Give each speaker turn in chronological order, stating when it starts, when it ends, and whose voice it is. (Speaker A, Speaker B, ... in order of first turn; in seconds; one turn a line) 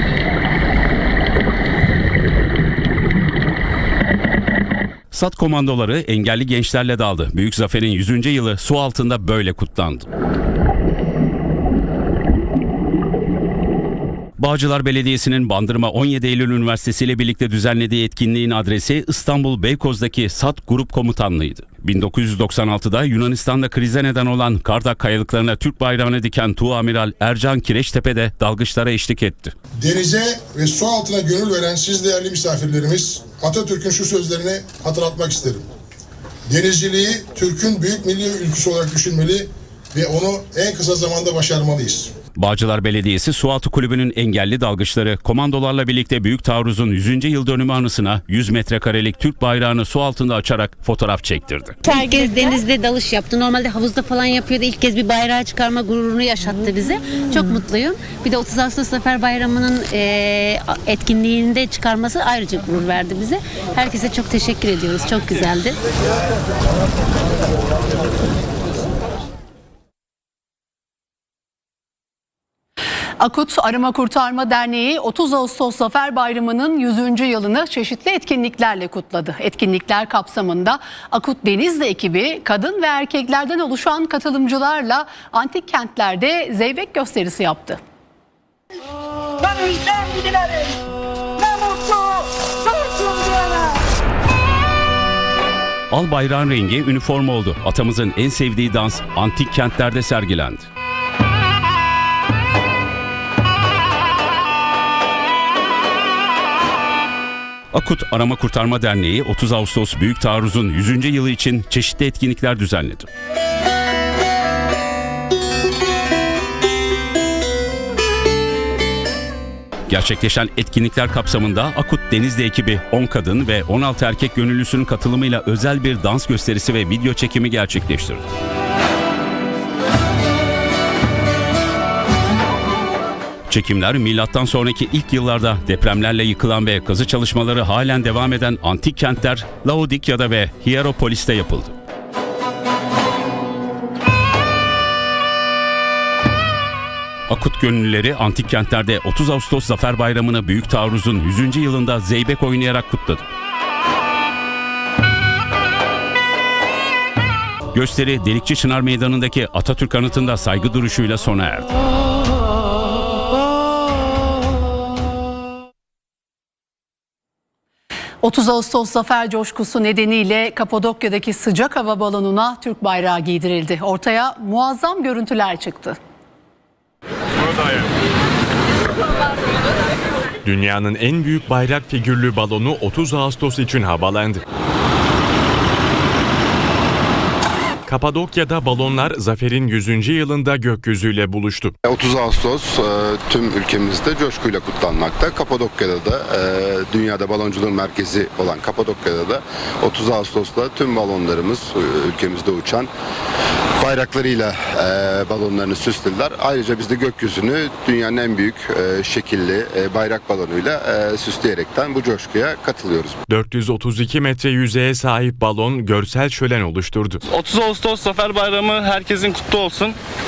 Speaker A: 5.1-10.1
Speaker A: 14.4-29.5
Speaker B: 29.8-35.6
Speaker B: 36.5-42.1
Speaker A: 42.4-51.8
Speaker C: 51.8-65.8
Speaker D: 73.2-87.8
Speaker A: 95.9-100.7
Speaker A: 107.7-113.1
Speaker A: 119.9-128.2
Speaker A: 133.5-141.7
Speaker A: 147.3-153.3
Speaker A: 157.7-161.7
Speaker D: 168.2-176.0
Speaker E: 180.4-184.4
Speaker E: 187.9-191.7
Speaker F: 191.8-202.9
Speaker F: 203.8-213.2
Speaker E: 213.3-217.2
Speaker G: 217.3-220.0